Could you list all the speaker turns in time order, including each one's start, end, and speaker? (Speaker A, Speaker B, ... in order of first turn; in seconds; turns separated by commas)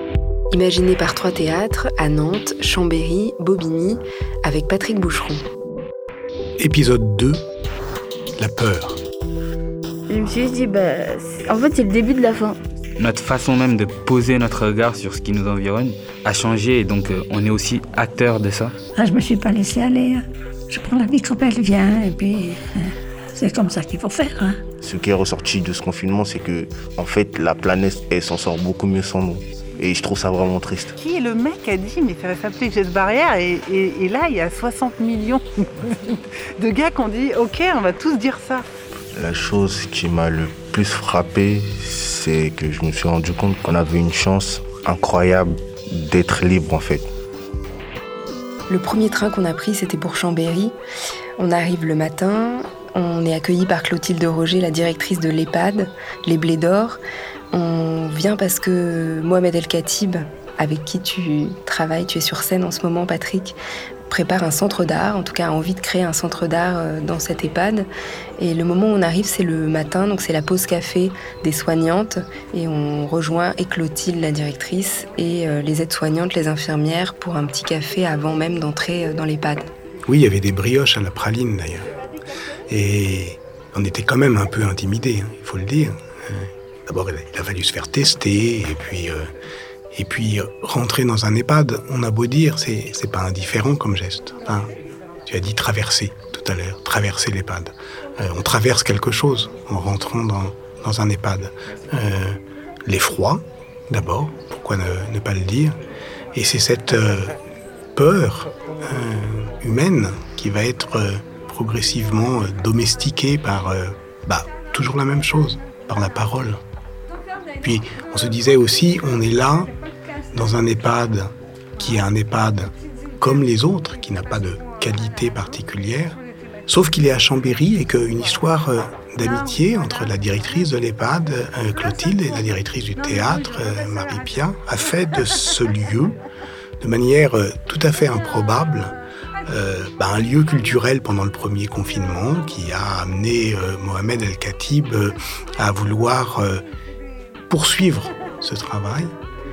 Speaker A: 0.5-5.4, Speaker B: 6.6-7.4, Speaker B: 8.4-9.0, Speaker C: 10.1-12.6, Speaker D: 13.0-18.7, Speaker E: 18.9-24.6, Speaker F: 24.8-30.9, Speaker G: 31.0-38.6, Speaker F: 39.1-47.0, Speaker A: 48.7-50.7, Speaker A: 51.4-57.0, Speaker A: 57.5-63.5, Speaker A: 64.1-67.9, Speaker A: 68.4-79.7, Speaker B: 80.0-81.9, Speaker B: 82.7-89.3, Speaker B: 89.9-94.7, Speaker B: 95.3-105.7, Speaker B: 106.3-107.3, Speaker B: 107.9-116.6, Speaker B: 117.6-119.7, Speaker B: 120.3-136.2, Speaker B: 136.8-138.9, Speaker B: 139.4-146.6, Speaker B: 147.5-149.1